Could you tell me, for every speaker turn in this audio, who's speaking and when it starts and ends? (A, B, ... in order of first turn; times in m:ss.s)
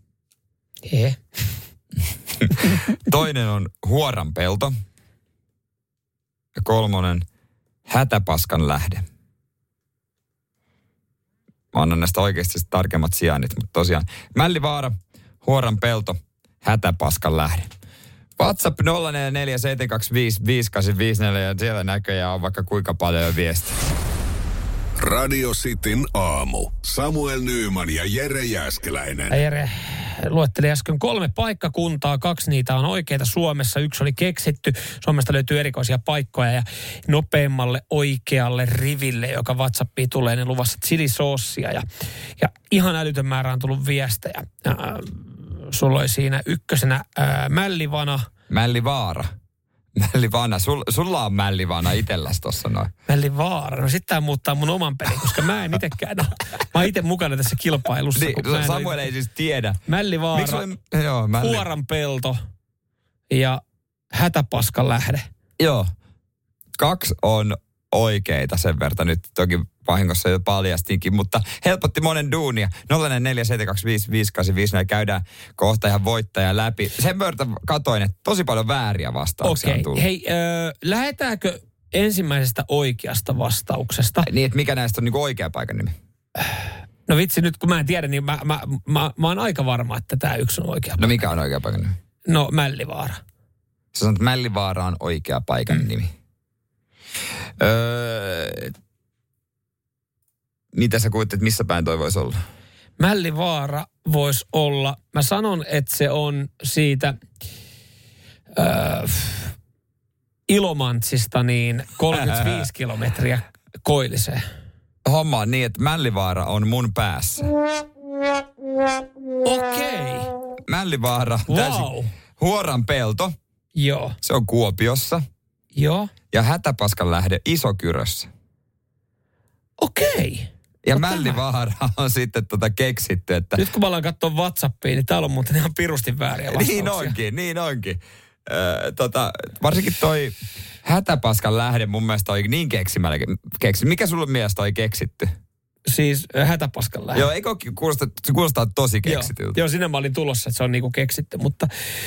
0:00.9-0:01.2 A
0:02.4-0:04.7 B
0:06.6-0:07.2 B
0:07.9-0:09.0 B
0:11.7-0:17.7 B
0:18.4-0:23.8 B
0:25.0-0:29.4 C
0:29.3-0:41.8 A
0:42.4-0:48.2 A
0:48.5-0:49.3 B
0:49.9-0:52.9 B
0:53.1-0:59.0 A
0:58.1-0:59.8 B
0:59.9-1:00.7 A
1:00.3-1:01.7 B
1:01.4-1:02.4 A
1:03.3-1:03.6 A
1:04.1-1:05.2 A
1:05.6-1:05.9 B
1:06.8-1:20.0 B
1:19.4-1:24.3 A
1:24.2-1:25.9 B
1:26.4-1:31.1 A
1:31.0-1:32.0 B
1:32.3-1:33.2 A
1:33.9-1:36.1 B
1:37.6-1:38.7 B
1:40.7-1:42.4 B
1:43.0-1:47.2 A
1:48.6-1:49.5 A
1:50.5-1:54.4 A
1:52.1-1:52.7 B
1:55.0-1:57.5 B
1:59.4-2:00.3 A
2:00.7-2:03.3 B
2:01.5-2:02.1 A
2:03.8-2:04.2 A
2:04.2-2:05.2 B
2:05.7-2:06.1 A
2:06.3-2:08.3 B
2:09.8-2:11.4 A
2:10.8-2:13.6 B
2:13.6-2:17.2 A
2:16.5-2:25.3 B
2:25.9-2:27.2 A
2:27.1-2:29.6 B
2:29.0-2:31.7 A